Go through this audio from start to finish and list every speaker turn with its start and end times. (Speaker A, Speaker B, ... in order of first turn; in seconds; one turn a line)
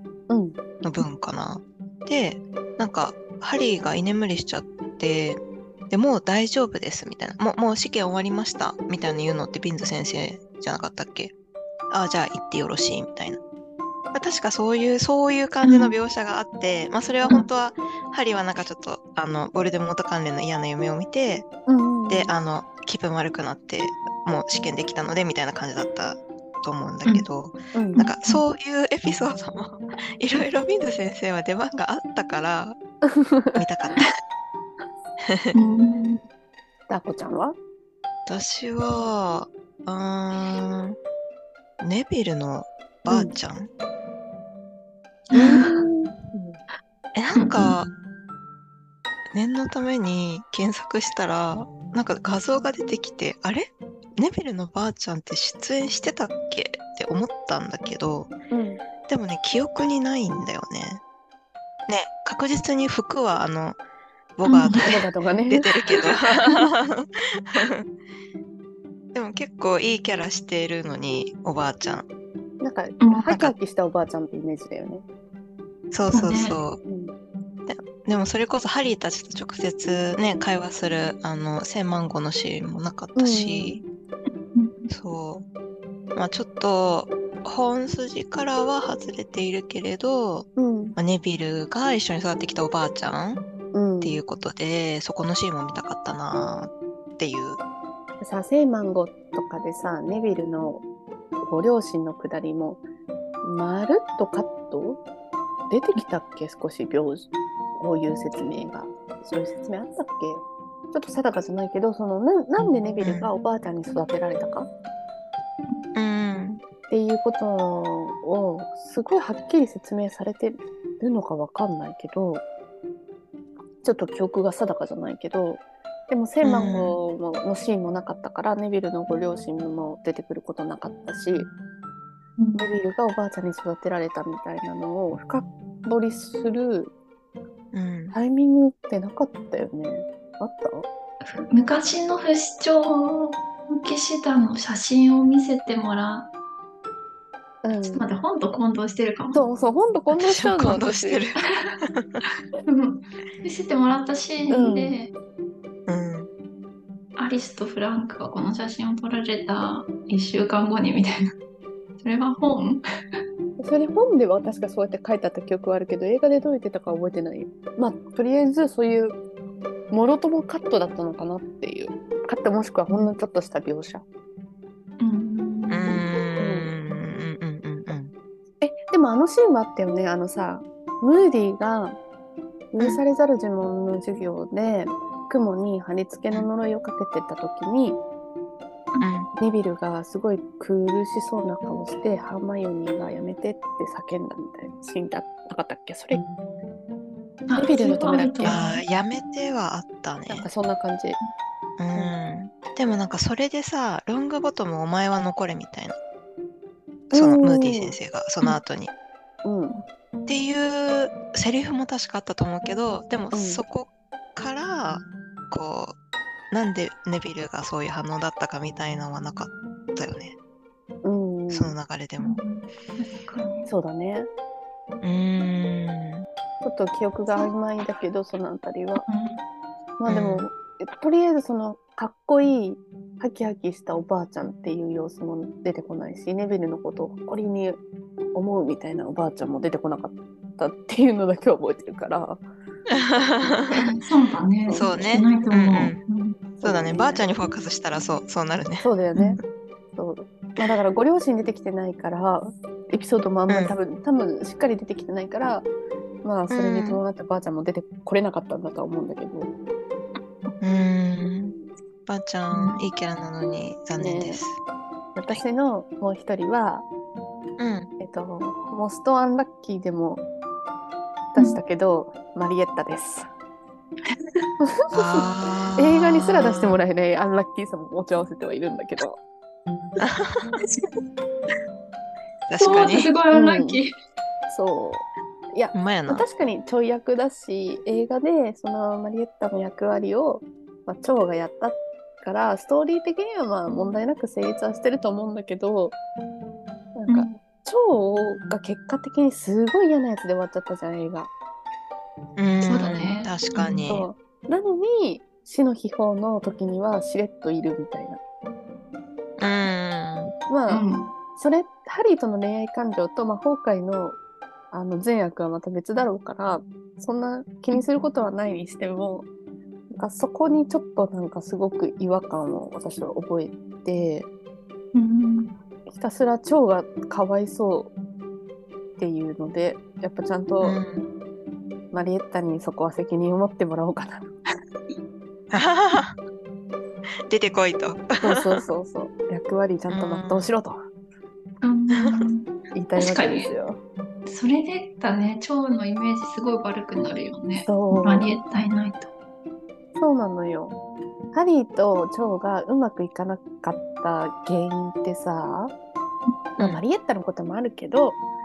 Speaker A: 0.3-0.6
Speaker B: 0.8-5.4
Speaker B: 5.9-11.3
Speaker B: 11.9-13.4
Speaker B: 14.1-21.4
Speaker C: 15.6-15.9
Speaker A: 21.7-22.3
Speaker B: 22.1-32.8
Speaker A: 27.7-28.1
Speaker A: 33.0-33.6
Speaker B: 33.5-34.0
Speaker B: 35.2-35.5
Speaker C: 35.5-36.2
Speaker A: 36.9-37.5
Speaker B: 38.2-41.0
Speaker B: 41.8-43.7
Speaker A: 43.1-43.3
Speaker C: 45.3-45.8
Speaker A: 45.3-46.6
Speaker B: 47.1-47.9
Speaker C: 47.3-47.7
Speaker B: 49.3-58.3
Speaker A: 58.5-58.8
Speaker B: 59.1-61.0
Speaker B: 61.9-63.8
Speaker B: 64.4-67.9
Speaker C: 64.4-65.0
Speaker A: 64.8-65.7
Speaker B: 69.1-72.0
Speaker A: 72.6-75.0
Speaker C: 73.0-73.3
Speaker B: 73.3-73.5
Speaker B: 75.9-76.8
Speaker C: 76.1-76.6
Speaker A: 76.8-77.1
Speaker B: 77.7-83.8
Speaker A: 83.1-83.8
Speaker C: 84.5-84.9
Speaker B: 84.9-85.5
Speaker B: 86.1-93.4
Speaker A: 90.6-91.0
Speaker A: 93.7-94.2
Speaker B: 94.0-97.6
Speaker A: 98.2-100.8
Speaker A: 101.4-102.8
Speaker A: 103.4-105.0
Speaker A: 105.7-114.7
Speaker B: 113.0-113.3
Speaker B: 115.9-116.6
Speaker A: 116.9-122.4
Speaker A: 123.8-131.5
Speaker B: 126.4-127.0
Speaker C: 132.4-132.7
Speaker A: 132.6-136.9
Speaker B: 137.7-138.1
Speaker A: 138.1-140.9
Speaker C: 141.2-146.3
Speaker A: 147.6-148.0
Speaker C: 147.8-149.4
Speaker A: 149.3-151.2
Speaker B: 150.1-152.2
Speaker C: 152.5-155.1
Speaker A: 154.5-155.0
Speaker B: 155.9-156.3
Speaker C: 157.2-161.3
Speaker C: 162.0-162.8
Speaker A: 163.6-169.2
Speaker A: 169.9-174.0
Speaker C: 175.0-176.0
Speaker B: 175.7-178.1
Speaker A: 176.4-176.7
Speaker A: 178.6-182.0
Speaker A: 182.7-188.0
Speaker B: 189.0-189.3
Speaker A: 189.3-196.2
Speaker C: 197.5-198.8
Speaker A: 197.5-198.6
Speaker B: 198.4-200.5
Speaker A: 200.3-201.2
Speaker B: 201.8-205.9
Speaker A: 207.1-207.9
Speaker B: 207.1-208.9
Speaker A: 209.4-209.8
Speaker B: 210.3-215.9
Speaker A: 213.3-213.6
Speaker B: 216.5-220.3
Speaker A: 221.0-221.7
Speaker B: 221.5-222.4
Speaker C: 222.2-223.7
Speaker A: 223.7-224.3
Speaker B: 225.0-226.2
Speaker A: 226.6-229.0
Speaker C: 229.0-229.4
Speaker A: 230.0-237.8
Speaker B: 230.1-230.4
Speaker A: 238.3-242.4
Speaker B: 242.9-243.7
Speaker C: 243.7-246.4
Speaker A: 244.7-245.1
Speaker B: 244.7-246.0
Speaker A: 246.6-247.2
Speaker B: 246.6-248.9
Speaker A: 248.8-249.4
Speaker A: 249.9-255.7
Speaker B: 253.5-253.7
Speaker A: 256.2-259.5
Speaker B: 256.5-257.0
Speaker B: 260.6-264.6
Speaker C: 262.5-262.8
Speaker A: 264.0-264.4
Speaker A: 265.1-266.9
Speaker B: 267.6-267.9
Speaker A: 268.0-270.2
Speaker A: 271.3-273.3
Speaker A: 274.6-279.2
Speaker B: 274.9-276.8
Speaker B: 280.0-280.6
Speaker B: 282.5-283.1
Speaker C: 282.6-283.9
Speaker A: 283.3-283.8
Speaker A: 284.5-295.9
Speaker B: 285.7-286.2
Speaker A: 296.9-301.3
Speaker C: 297.1-297.4
Speaker B: 302.4-304.1
Speaker C: 302.6-303.9
Speaker A: 303.9-308.2
Speaker B: 309.4-310.3
Speaker A: 310.5-310.8
Speaker C: 310.7-311.1
Speaker A: 311.3-314.2
Speaker A: 314.7-319.3
Speaker A: 319.9-324.3
Speaker C: 324.9-325.6
Speaker A: 325.9-327.9
Speaker A: 329.0-330.8
Speaker B: 330.6-331.0
Speaker A: 331.9-334.3
Speaker B: 335.5-336.1
Speaker B: 337.3-338.6
Speaker A: 338.2-340.8
Speaker B: 339.9-340.5
Speaker C: 341.6-343.5
Speaker A: 342.7-343.8
Speaker C: 344.2-349.1
Speaker A: 347.6-348.3
Speaker A: 350.0-350.7
Speaker A: 351.3-355.7
Speaker A: 356.6-358.2